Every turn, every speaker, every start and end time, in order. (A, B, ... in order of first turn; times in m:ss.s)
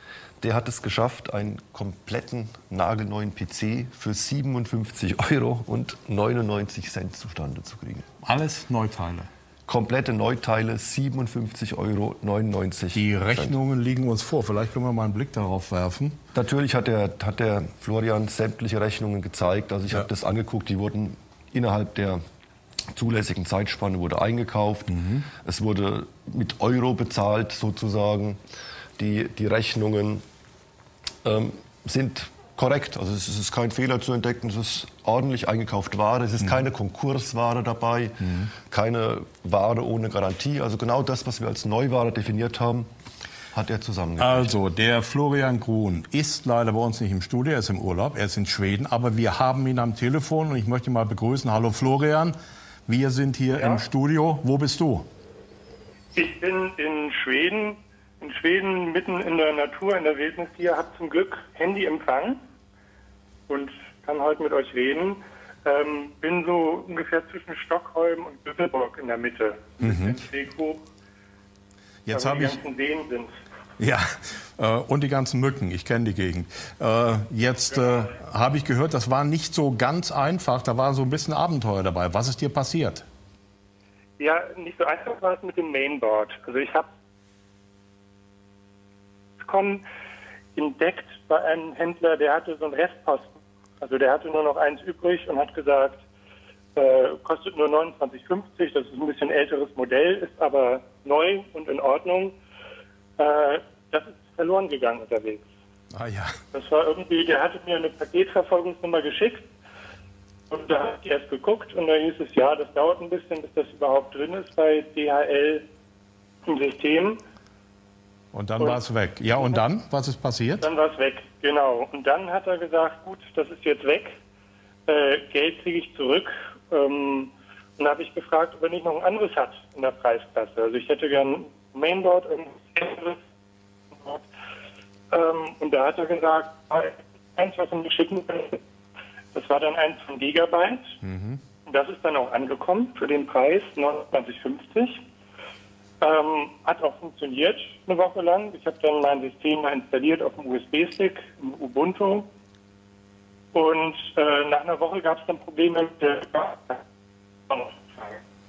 0:00.4-0:08.0 A
0:08.2-0:09.3 B
0:09.7-0:13.6 A
0:12.9-0:16.2 B
0:16.3-0:22.2 A
0:22.9-0:28.4 A
0:25.0-0:25.2 B
0:29.0-0:30.2 A
0:31.2-0:42.9 A
0:43.5-0:44.6 A
0:44.2-0:52.3 B
0:52.9-0:55.1 B
0:56.1-1:02.4 C
1:03.5-1:10.8 C
1:09.8-1:10.2 B
1:12.0-1:12.6 B
1:12.1-1:13.3 C
1:13.8-1:23.0 B
1:24.2-1:26.9 C
1:29.4-1:29.8 C
1:30.5-1:36.0 C
1:36.8-1:42.3 C
1:43.2-1:45.4 C
1:45.9-1:46.3 B
1:46.5-1:49.5 C
1:50.5-1:55.6 C
1:56.4-1:57.2 C
1:58.3-2:00.7 B
2:00.6-2:04.1 C
2:04.9-2:13.2 C
2:13.9-2:14.2 C
2:15.1-2:18.6 C
2:19.3-2:20.9 C
2:21.0-2:21.4 B
2:21.6-2:25.0 C
2:26.0-2:32.2 C
2:33.5-2:36.8 C
2:37.5-2:38.2 C